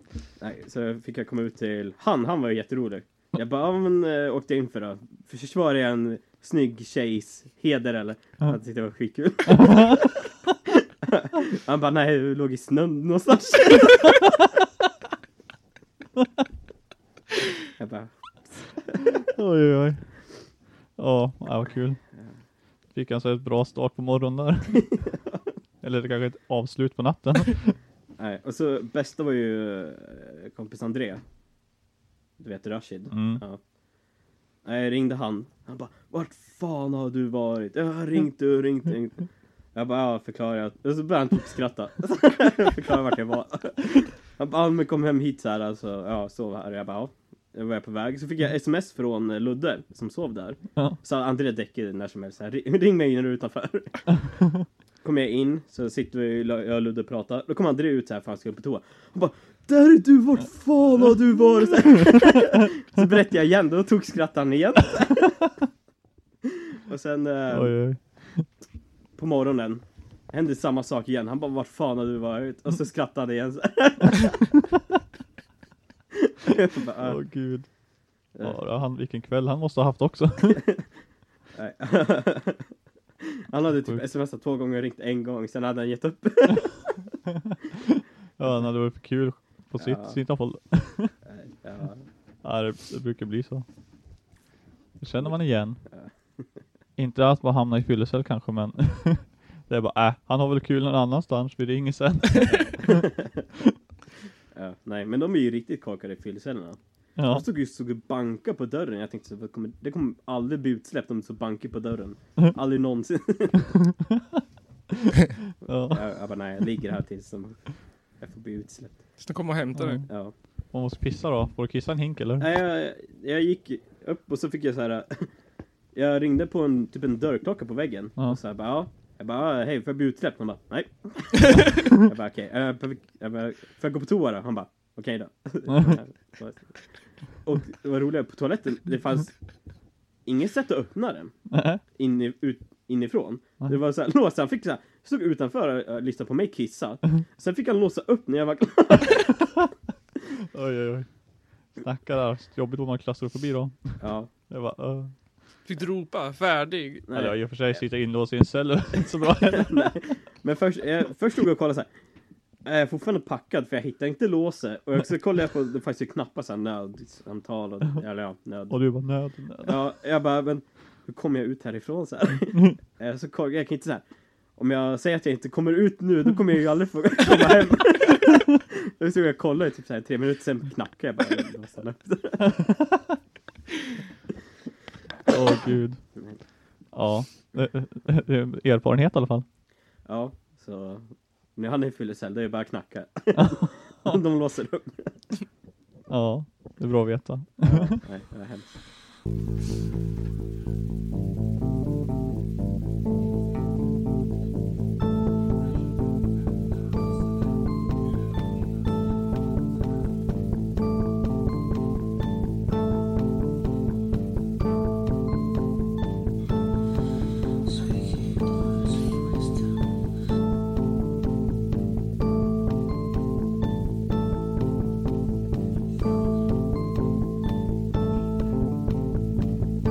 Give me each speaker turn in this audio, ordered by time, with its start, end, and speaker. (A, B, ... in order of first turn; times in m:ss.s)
0:00.4-0:14.2 A
0:17.8-0:19.1 A
0:19.2-0:20.1 B
0:21.0-0:22.0 B
0:22.9-0:24.9 B
0:25.8-0:27.7 B
0:28.2-0:31.2 A
0:32.4-0:33.6 A
0:33.1-0:33.4 B
0:34.6-0:53.9 A
0:55.0-1:05.4 A
1:06.9-1:07.7 A
1:07.5-1:08.4 B
1:09.2-1:14.5 A
1:16.2-1:17.2 A
1:17.0-1:17.7 B
1:18.4-1:20.6 B
1:21.6-1:22.6 A
1:23.3-1:27.0 A
1:27.7-1:31.1 B
1:29.8-1:30.2 A
1:31.3-1:32.0 A
1:32.4-1:33.6 B
1:35.0-1:35.8 B
1:37.0-1:43.0 B
1:42.5-1:43.3 A
1:44.5-1:53.6 A
1:47.2-1:47.4 B
1:55.0-1:56.1 B
1:55.9-1:57.7 A
1:58.2-1:59.0 A
1:59.2-2:00.0 C
1:59.8-2:00.1 B
2:00.1-2:00.3 A
2:00.7-2:02.5 B
2:02.4-2:05.3 A
2:05.9-2:16.7 A
2:17.4-2:19.3 A
2:20.2-2:21.3 A
2:21.5-2:21.8 B
2:22.0-2:29.5 A
2:30.5-2:31.1 B
2:31.8-2:35.1 B
2:34.0-2:34.3 A
2:35.6-2:37.0 C
2:37.1-2:37.4 A
2:37.1-2:40.0 B
2:39.4-2:41.9 A
2:42.6-2:48.8 A
2:48.7-2:49.8 B
2:49.6-2:54.0 A
2:54.6-3:02.6 A
3:05.3-3:06.0 B
3:06.9-3:09.4 B
3:10.0-3:11.0 A
3:11.6-3:15.1 A
3:16.1-3:18.0 B
3:17.6-3:18.7 A